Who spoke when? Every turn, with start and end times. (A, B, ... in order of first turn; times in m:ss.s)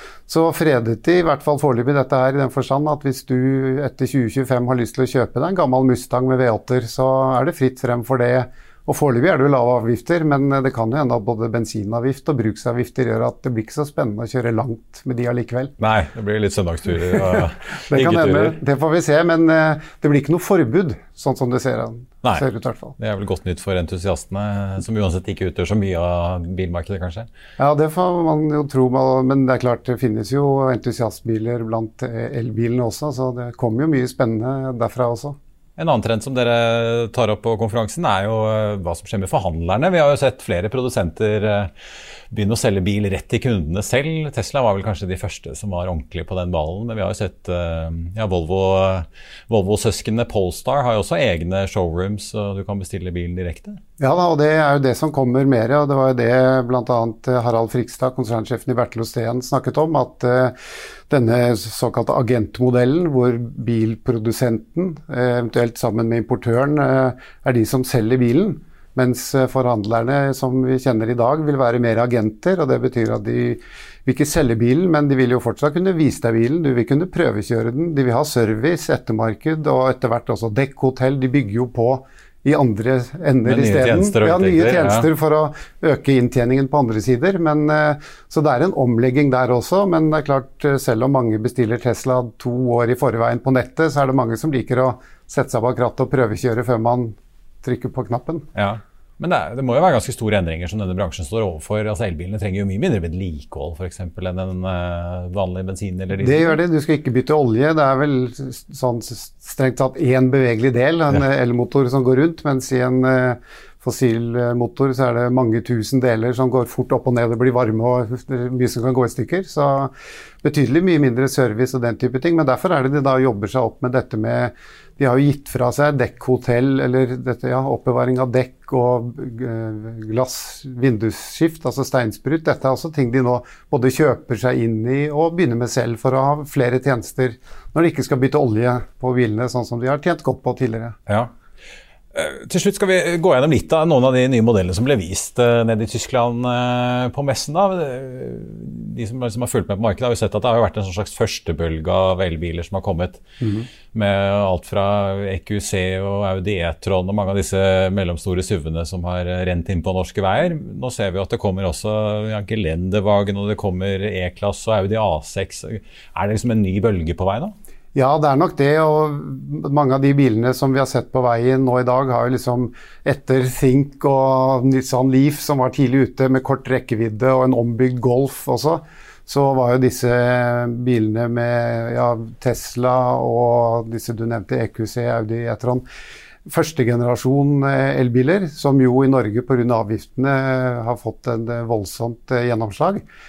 0:00.3-0:15.7 A
0:15.8-0:18.6 B
0:17.4-0:23.0 A
0:23.0-0:27.3 B
0:27.6-0:35.4 A
0:35.8-0:41.7 B
0:42.3-0:53.8 B
0:54.0-1:00.5 A
1:01.1-1:38.5 A
1:23.4-1:25.1 B
1:38.6-1:46.6 B
1:46.2-2:21.0 A
2:22.1-2:33.2 B
2:33.4-2:33.7 A
2:33.9-2:47.6 B
2:47.9-3:05.9 A
3:06.5-3:13.0 A